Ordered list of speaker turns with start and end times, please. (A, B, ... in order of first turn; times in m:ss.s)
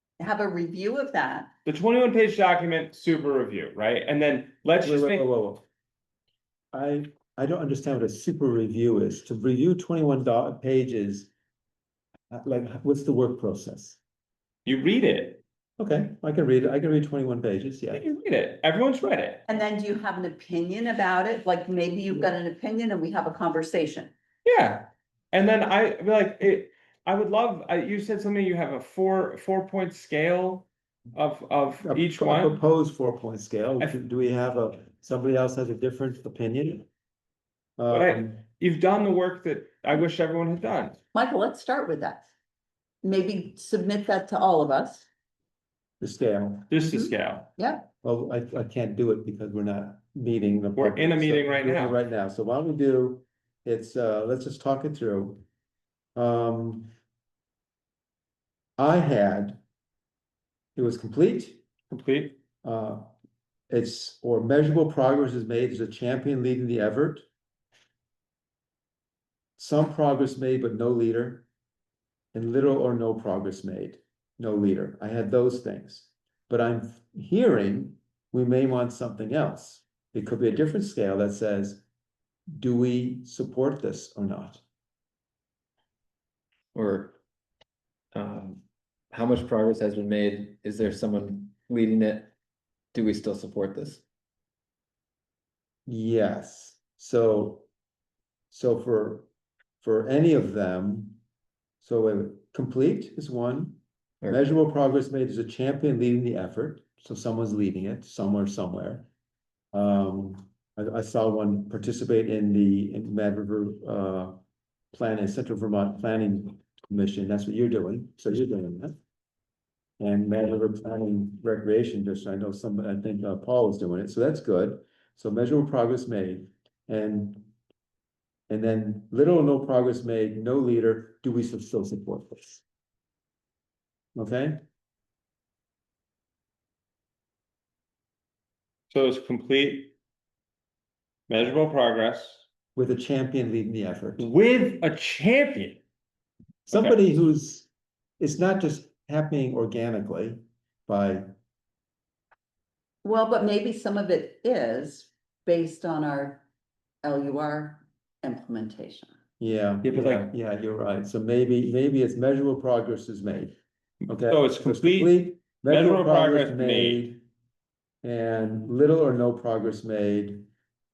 0:00.2-0:01.5 A
0:01.7-0:05.3 B
0:04.8-0:05.6 C
0:06.7-0:11.3 C
0:12.3-0:14.0 C
0:14.7-0:15.4 B
0:15.8-0:18.0 C
0:17.9-0:19.4 B
0:19.5-0:24.1 A
0:24.4-0:32.6 B
0:31.8-0:36.9 C
0:37.8-0:38.4 C
0:37.9-0:41.0 B
0:41.1-0:42.3 A
0:43.0-0:45.1 A
0:46.0-0:46.7 C
0:46.7-0:47.5 B
0:46.8-0:47.9 A
0:48.0-0:55.4 C
0:50.8-0:52.0 B
0:56.2-0:56.9 C
0:58.8-0:59.6 C
1:00.8-1:01.6 C
1:01.9-1:02.4 B
1:02.6-1:03.1 C
1:03.7-1:07.3 C
1:09.6-1:11.5 C
1:12.3-1:21.8 C
1:22.5-1:24.6 C
1:26.7-1:27.2 D
1:28.1-1:32.3 D
1:32.9-1:34.0 D
1:35.9-1:37.7 C
1:38.5-1:39.3 C
1:39.8-1:41.2 C
1:41.8-1:49.1 C
1:49.7-1:54.4 C
1:54.9-1:59.0 C
2:00.0-2:07.5 C
2:08.5-2:12.6 C
2:14.2-2:14.6 C
2:18.9-2:19.9 B
2:21.3-2:22.4 B
2:22.8-2:24.3 C
2:24.2-2:25.8 B
2:26.7-2:27.7 C
2:26.7-2:27.0 B
2:28.2-2:31.3 C
2:33.0-2:36.4 A
2:37.0-2:39.2 A
2:39.4-2:43.6 C
2:39.8-2:40.3 B
2:44.1-2:47.0 B
2:44.1-2:47.2 C
2:48.0-2:50.5 C